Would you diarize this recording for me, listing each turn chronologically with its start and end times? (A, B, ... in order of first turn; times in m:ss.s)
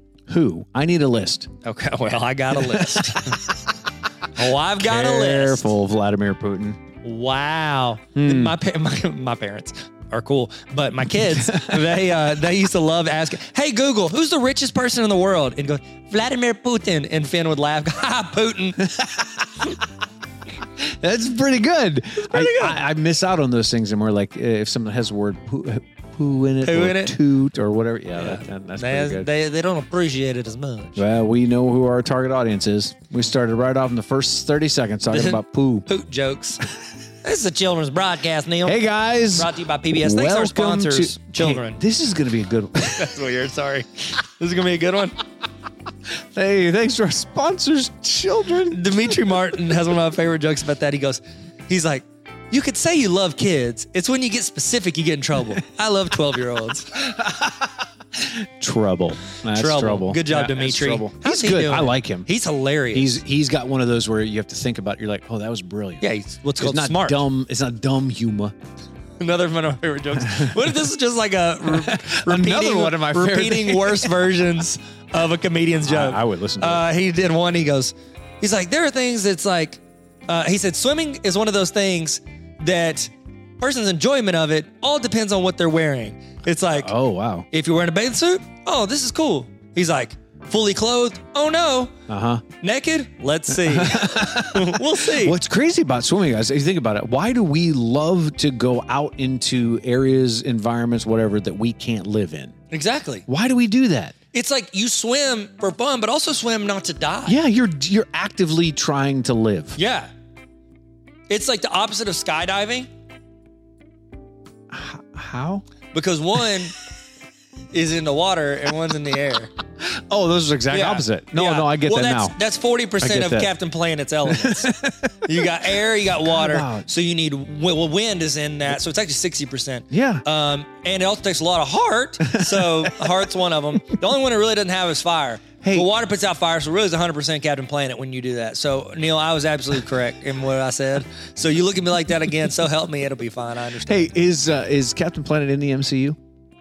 0:00.3-0:01.5 A
0:01.6-0:03.4 B
0:02.5-0:03.4 A
0:04.3-0:05.6 B
0:04.8-0:06.8 A
0:07.0-0:18.8 B
0:08.1-0:08.5 A
0:11.2-0:11.9 A
0:18.8-0:19.7 A
0:20.8-0:29.3 A
0:22.2-0:22.8 B
0:26.6-0:27.2 B
0:28.2-0:31.0 B
0:31.0-0:35.9 A
0:35.1-0:36.6 B
0:37.2-0:38.8 B
0:38.6-0:43.1 A
0:39.3-0:41.8 B
0:42.8-0:45.2 B
0:46.3-0:48.9 A
0:48.7-0:57.1 B
0:57.1-1:02.3 A
0:59.5-1:03.2 B
1:02.9-1:08.5 A
1:06.0-1:07.3 B
1:09.2-1:26.9 B
1:10.2-1:10.7 A
1:11.6-1:14.2 A
1:15.8-1:16.8 A
1:26.7-1:27.5 A
1:27.5-1:31.9 B
1:32.1-1:32.4 A
1:32.6-1:35.3 B
1:33.5-1:42.5 A
1:42.7-1:43.2 B
1:43.3-1:44.1 A
1:44.3-1:47.4 B
1:47.2-1:49.8 A
1:49.8-1:50.1 B
1:51.3-1:52.9 B
1:54.7-1:55.6 A
1:55.9-1:56.8 B
1:57.7-1:59.5 B
1:59.8-2:02.4 A
2:00.7-2:24.1 B
2:03.0-2:03.5 A
2:04.3-2:05.5 A
2:06.2-2:06.9 A
2:09.9-2:10.2 A
2:12.2-2:13.1 A
2:15.6-2:15.9 A
2:23.8-2:26.2 A